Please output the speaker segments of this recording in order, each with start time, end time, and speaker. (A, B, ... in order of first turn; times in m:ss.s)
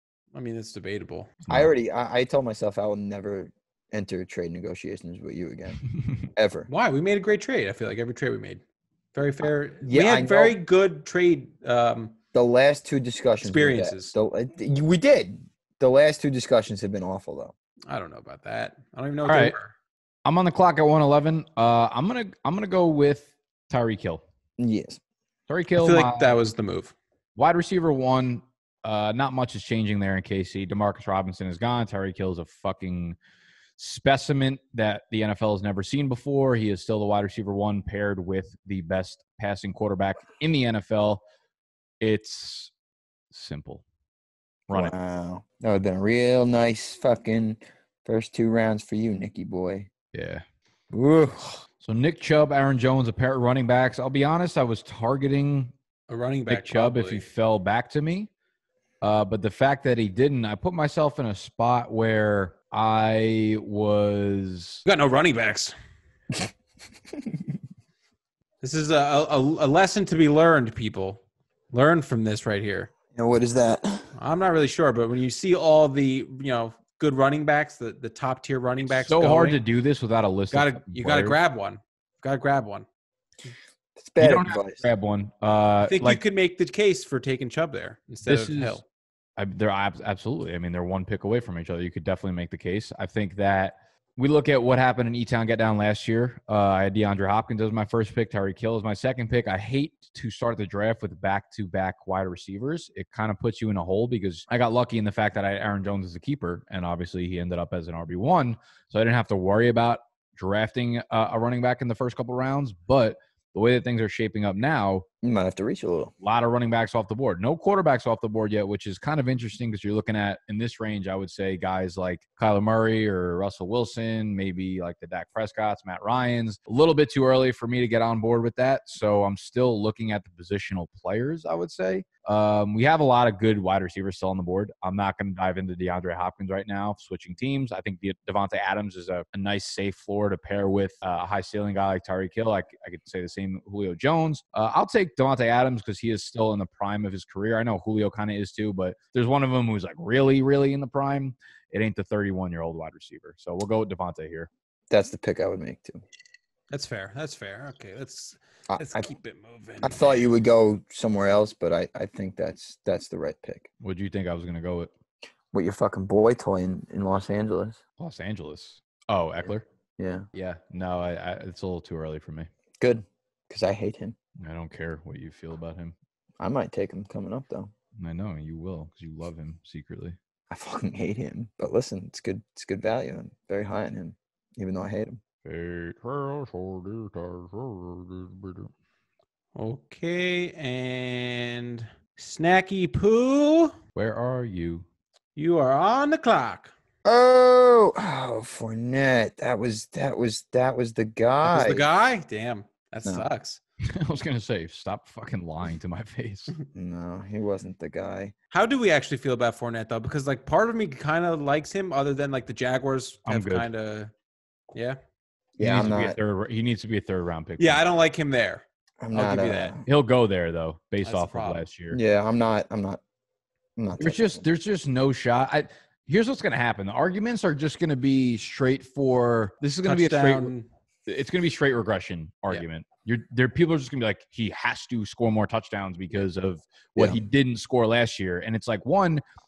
0:00.3-0:01.3 A
0:01.4-0:01.7 B
0:01.5-0:05.8 C
0:06.3-0:06.7 C
0:06.7-0:08.6 A
0:09.1-0:12.1 A
0:09.8-0:10.5 C
0:12.3-0:17.5 C
0:13.4-0:14.1 A
0:17.9-0:19.7 A
0:19.2-0:19.5 B
0:20.2-0:24.2 B
0:24.6-0:25.0 C
0:25.5-0:26.3 B
0:25.8-0:26.9 A
0:27.4-0:33.2 B
0:33.8-0:41.2 B
0:42.0-0:42.7 B
0:43.3-0:43.8 B
0:44.7-0:44.9 B
0:44.7-0:49.9 C
0:50.1-0:50.4 B
0:50.9-0:51.6 C
0:51.8-0:55.7 B
0:56.1-0:57.2 A
0:56.5-0:58.3 B
0:59.0-1:04.8 B
1:04.8-1:05.7 A
1:08.6-1:12.9 A
1:13.1-1:14.1 C
1:14.2-1:19.6 A
1:18.9-1:21.4 B
1:20.5-1:22.8 A
1:24.0-1:24.8 C
1:24.2-1:26.2 B
1:25.8-1:28.8 A
1:28.2-1:28.8 B
1:29.4-1:55.0 B
1:55.2-1:56.1 C
1:56.2-2:34.5 B
2:34.9-2:36.0 C
2:36.7-2:40.2 A
2:38.7-2:39.1 C
2:39.8-2:43.7 C
2:43.8-2:44.9 B
2:45.5-2:47.8 C
2:48.0-2:49.6 B
2:50.0-2:50.2 C
2:50.3-2:52.5 B
2:52.8-2:54.2 C
2:54.4-2:55.9 B
2:56.4-2:57.7 C
2:58.0-3:00.2 B
3:00.5-3:05.2 C
3:05.4-3:08.7 B
3:09.5-3:13.8 A
3:13.9-3:14.8 B
3:15.4-3:16.7 A
3:17.0-3:21.8 C
3:21.4-3:23.6 A
3:23.9-3:26.5 B
3:26.7-3:28.3 C
3:28.5-3:34.1 A
3:33.3-3:33.7 B
3:34.7-3:35.0 A
3:35.6-3:36.2 C
3:35.6-3:37.8 B
3:37.6-3:39.8 A
3:39.0-3:39.8 C
3:39.8-3:42.0 B
3:41.0-3:41.7 A
3:41.9-3:43.0 C
3:43.8-3:44.4 C
3:44.0-3:50.5 B
3:49.8-3:50.7 A
3:51.0-3:59.2 B